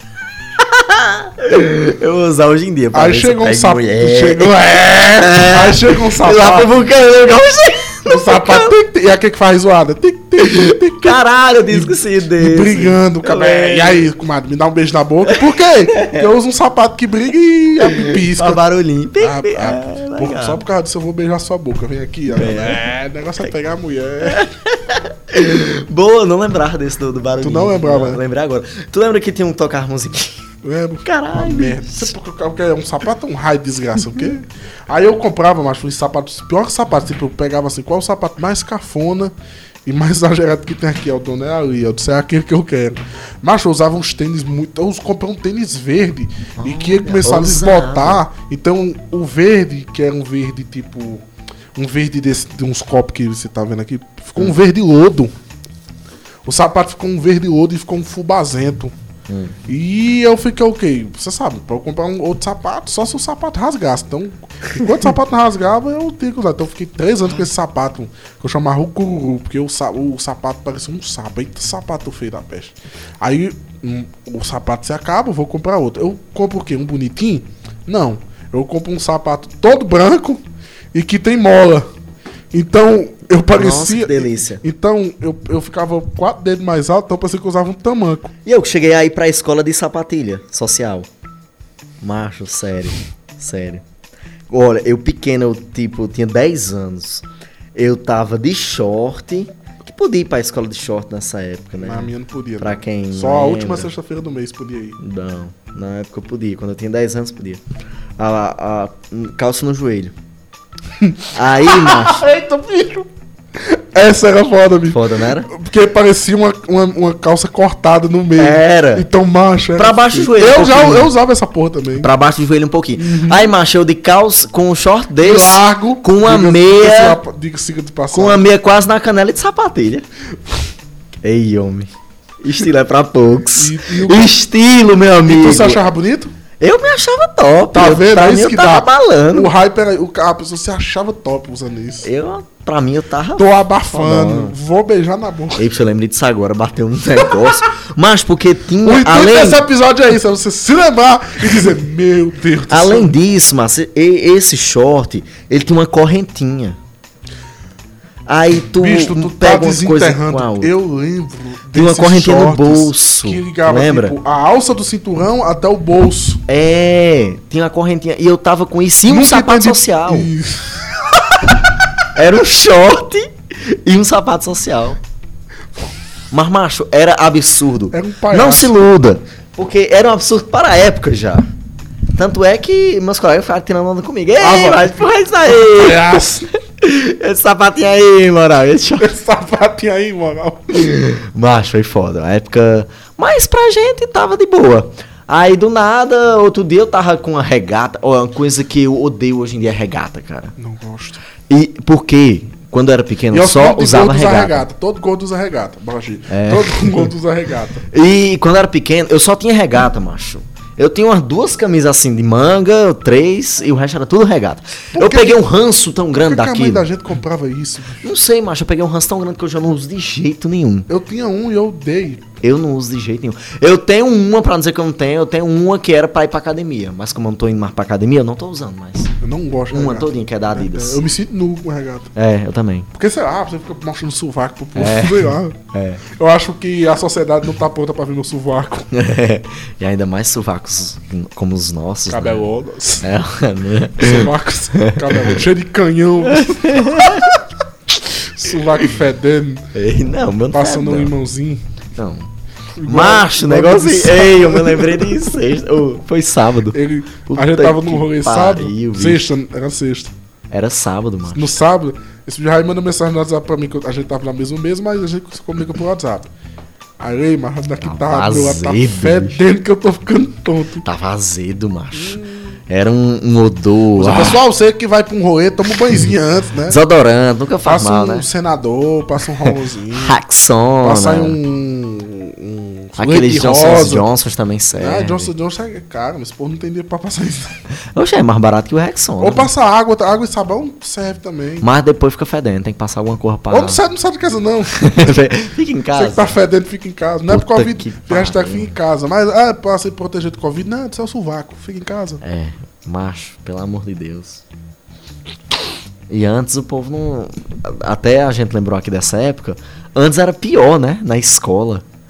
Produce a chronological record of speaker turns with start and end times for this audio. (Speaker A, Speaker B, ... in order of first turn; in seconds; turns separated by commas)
Speaker A: 0.6-8.7, Speaker B: 2.9-6.7, Speaker B: 8.1-11.2, Speaker A: 10.4-14.1, Speaker B: 11.7-18.6, Speaker A: 15.3-16.3, Speaker A: 17.8-20.6, Speaker B: 19.2-24.4, Speaker A: 22.3-22.8, Speaker A: 24.2-30.4, Speaker B: 27.4-28.2, Speaker B: 30.6-39.3, Speaker A: 31.0-32.1, Speaker B: 39.8-51.2, Speaker A: 46.6-48.2, Speaker B: 51.7-55.3, Speaker B: 56.4-58.9, Speaker A: 59.3-59.5, Speaker B: 59.7-81.9, Speaker B: 82.5-88.3, Speaker A: 83.5-84.6, Speaker A: 88.4-91.1, Speaker A: 92.0-93.8, Speaker A: 94.5-103.9, Speaker B: 101.8-105.0, Speaker A: 105.0-107.6, Speaker A: 108.2-110.1, Speaker B: 111.0-122.1, Speaker A: 111.3-112.2, Speaker A: 114.9-115.5, Speaker A: 118.4-119.0, Speaker A: 119.8-121.1, Speaker A: 122.0-127.2, Speaker B: 123.0-123.5, Speaker B: 125.2-128.4, Speaker A: 128.1-130.0, Speaker A: 131.2-131.9, Speaker A: 132.4-135.8, Speaker B: 133.5-134.3, Speaker B: 135.2-136.3, Speaker A: 136.6-139.5, Speaker B: 137.7-142.1, Speaker A: 142.0-144.5, Speaker B: 143.3-145.7, Speaker A: 145.6-149.6, Speaker B: 147.2-147.5, Speaker B: 148.8-153.2, Speaker A: 152.7-156.8, Speaker A: 158.3-160.7, Speaker B: 158.7-166.4, Speaker A: 161.7-164.1, Speaker A: 166.5-170.3, Speaker B: 169.1-171.0, Speaker A: 172.1-175.0, Speaker A: 176.3-181.5, Speaker B: 177.9-178.7, Speaker A: 182.1-189.1, Speaker B: 184.4-186.5, Speaker B: 189.0-190.9, Speaker A: 190.7-200.5, Speaker B: 200.6-201.2, Speaker A: 201.5-204.6, Speaker B: 203.3-207.8, Speaker A: 206.3-207.1, Speaker A: 207.9-216.9, Speaker B: 214.9-215.4, Speaker B: 216.2-218.1, Speaker A: 218.0-220.9, Speaker B: 220.9-222.3, Speaker A: 222.4-229.1, Speaker B: 229.2-232.1, Speaker A: 229.7-231.0, Speaker A: 232.1-232.9, Speaker B: 232.9-238.9, Speaker A: 234.8-236.0, Speaker A: 238.9-242.4, Speaker B: 242.1-243.1, Speaker A: 243.0-245.4, Speaker B: 244.0-247.3, Speaker A: 246.3-247.4, Speaker B: 248.1-249.7, Speaker A: 249.7-251.1, Speaker B: 250.5-251.6, Speaker A: 251.9-252.3, Speaker B: 252.8-255.3, Speaker A: 252.8-259.3, Speaker B: 256.7-260.1, Speaker A: 260.5-261.5, Speaker B: 261.3-266.3, Speaker B: 267.0-270.8, Speaker A: 267.8-269.4, Speaker A: 270.8-274.4, Speaker B: 271.9-272.6, Speaker B: 274.0-276.8, Speaker A: 276.7-278.3, Speaker B: 277.6-280.2, Speaker A: 279.4-281.4, Speaker B: 280.8-284.0, Speaker A: 283.0-285.3, Speaker B: 284.7-287.6, Speaker A: 287.9-289.5, Speaker B: 289.2-291.7, Speaker A: 291.6-293.8, Speaker B: 293.5-295.3, Speaker A: 294.7-296.3, Speaker B: 295.9-302.2, Speaker A: 297.3-298.7, Speaker A: 302.2-304.4, Speaker A: 306.1-311.8